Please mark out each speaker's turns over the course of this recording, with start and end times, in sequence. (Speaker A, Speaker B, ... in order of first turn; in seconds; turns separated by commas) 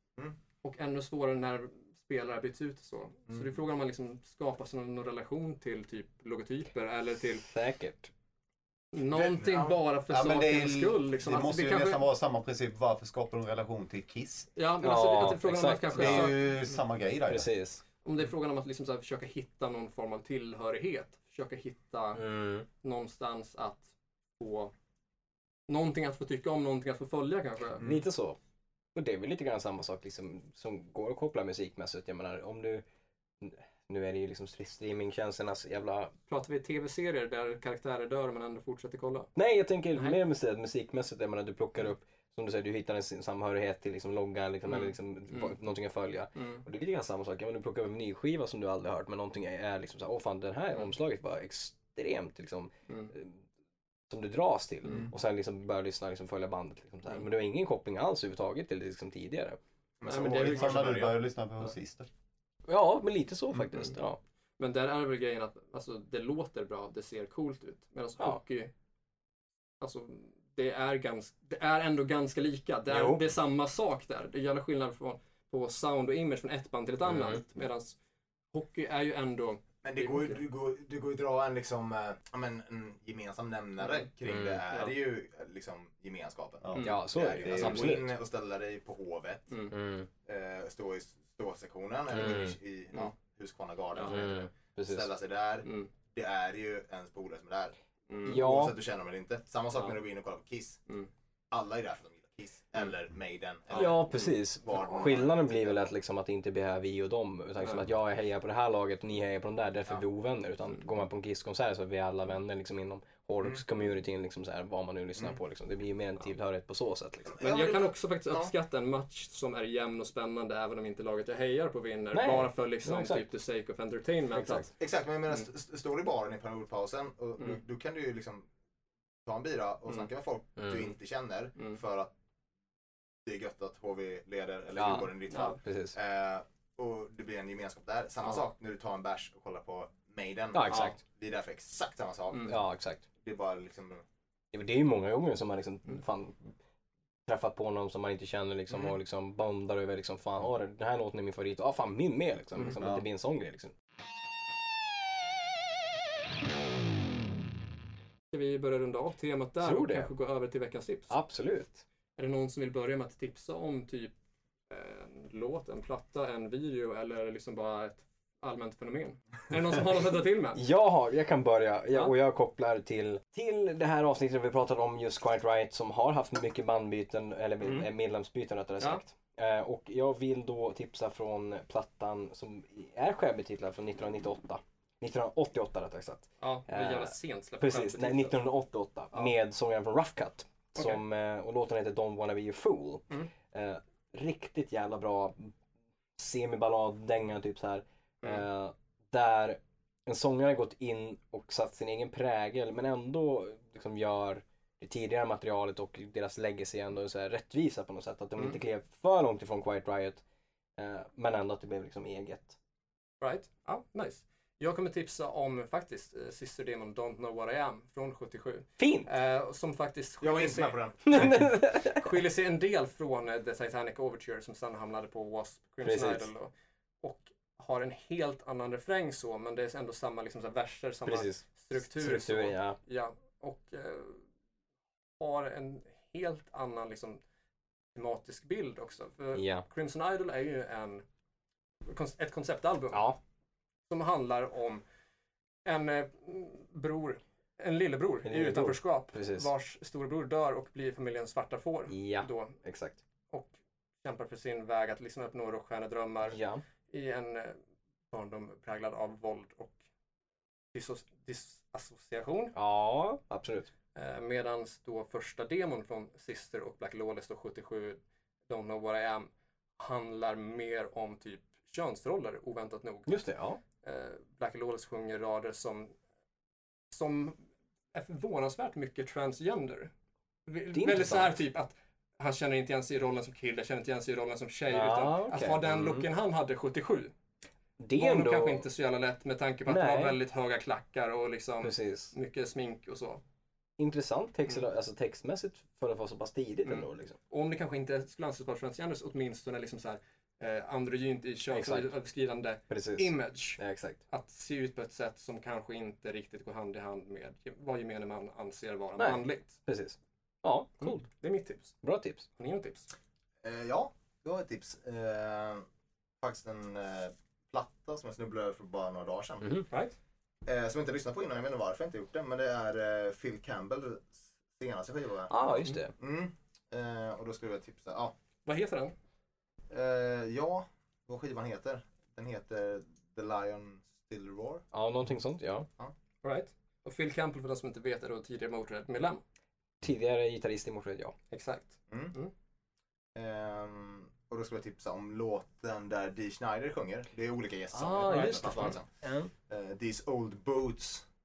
Speaker A: 0.6-7.5, Speaker B: 7.4-8.1, Speaker A: 8.9-12.1, Speaker C: 9.1-9.8, Speaker D: 10.1-14.5, Speaker A: 14.6-16.4, Speaker B: 14.8-16.4, Speaker D: 16.0-17.5, Speaker B: 17.3-17.8, Speaker A: 18.0-22.2, Speaker B: 22.2-22.7, Speaker A: 22.8-24.7, Speaker A: 25.7-27.9, Speaker B: 27.8-28.4, Speaker B: 28.9-32.8, Speaker B: 33.4-36.1, Speaker A: 36.3-39.3, Speaker B: 39.4-53.4, Speaker A: 44.7-45.5, Speaker A: 46.4-46.6, Speaker B: 54.1-59.6, Speaker A: 54.9-55.1, Speaker C: 54.9-55.1, Speaker C: 60.0-61.1, Speaker A: 60.0-61.2, Speaker D: 60.3-62.1, Speaker B: 62.7-64.2, Speaker A: 64.6-68.7, Speaker A: 69.8-78.0, Speaker B: 72.9-73.2, Speaker B: 77.1-77.4, Speaker A: 78.5-80.4, Speaker C: 79.8-89.5, Speaker A: 83.8-84.1, Speaker B: 84.2-84.6, Speaker A: 84.7-85.0, Speaker D: 86.6-86.9, Speaker B: 86.8-88.2, Speaker A: 87.5-87.9, Speaker B: 89.7-90.1, Speaker C: 90.2-100.8, Speaker B: 92.1-92.6, Speaker A: 94.0-94.2, Speaker B: 94.0-95.1, Speaker A: 95.7-95.9, Speaker A: 98.1-98.4, Speaker B: 98.2-98.8, Speaker C: 101.5-105.9, Speaker A: 103.7-104.3, Speaker B: 103.7-117.3, Speaker A: 107.6-107.9, Speaker C: 117.3-118.5, Speaker A: 117.4-124.7, Speaker B: 122.1-123.3, Speaker B: 124.3-124.7, Speaker C: 124.8-128.5, Speaker C: 129.2-132.1, Speaker B: 130.6-130.9, Speaker C: 133.2-142.7, Speaker B: 134.8-136.0, Speaker A: 135.3-135.6, Speaker B: 140.5-141.0, Speaker A: 140.7-141.0, Speaker A: 142.3-142.6, Speaker B: 142.5-143.1, Speaker C: 143.2-144.1, Speaker B: 144.5-146.5, Speaker B: 147.3-153.7, Speaker D: 152.8-153.0, Speaker A: 158.3-161.1, Speaker B: 159.6-160.1, Speaker B: 161.1-161.8, Speaker A: 162.2-164.1, Speaker A: 164.7-170.6, Speaker B: 170.6-195.5, Speaker A: 177.6-177.9, Speaker A: 186.4-188.3, Speaker A: 190.8-191.0, Speaker B: 196.2-210.2, Speaker B: 210.8-212.6, Speaker A: 213.2-226.5, Speaker B: 218.8-219.1, Speaker C: 220.2-221.2, Speaker B: 221.1-222.0, Speaker B: 225.8-226.3, Speaker A: 227.0-234.2, Speaker B: 231.1-232.8, Speaker A: 235.2-237.2, Speaker A: 237.9-241.1, Speaker B: 239.3-239.7, Speaker A: 241.9-243.1, Speaker B: 242.9-243.2, Speaker A: 243.9-244.8, Speaker A: 245.7-252.6, Speaker B: 248.3-249.5, Speaker B: 251.9-253.0, Speaker A: 254.0-257.6, Speaker B: 256.3-256.6, Speaker A: 258.1-259.8, Speaker A: 260.7-262.5, Speaker B: 262.6-263.7, Speaker A: 263.9-273.3, Speaker B: 273.1-273.6, Speaker A: 273.8-276.0, Speaker A: 276.9-277.4, Speaker A: 277.9-279.9, Speaker A: 280.5-287.1, Speaker B: 280.7-281.4, Speaker B: 284.7-286.1, Speaker B: 287.8-288.6, Speaker A: 287.9-293.2, Speaker B: 289.7-290.2, Speaker B: 291.6-292.1, Speaker B: 293.8-297.2, Speaker A: 296.6-309.6, Speaker B: 301.5-301.9, Speaker B: 302.7-304.0, Speaker B: 309.0-311.1, Speaker A: 310.8-311.7, Speaker B: 311.8-312.3, Speaker A: 312.4-312.9, Speaker C: 313.4-315.7, Speaker C: 316.2-319.5, Speaker B: 319.4-319.7, Speaker A: 319.7-320.0, Speaker C: 320.4-328.1, Speaker B: 325.3-325.9, Speaker A: 328.5-328.9, Speaker C: 329.7-334.6, Speaker B: 334.7-335.7, Speaker A: 336.2-339.2, Speaker B: 339.8-341.1, Speaker A: 341.3-342.3, Speaker C: 341.9-342.1, Speaker C: 343.1-348.9, Speaker B: 347.7-349.3, Speaker A: 348.1-348.8, Speaker C: 349.5-351.1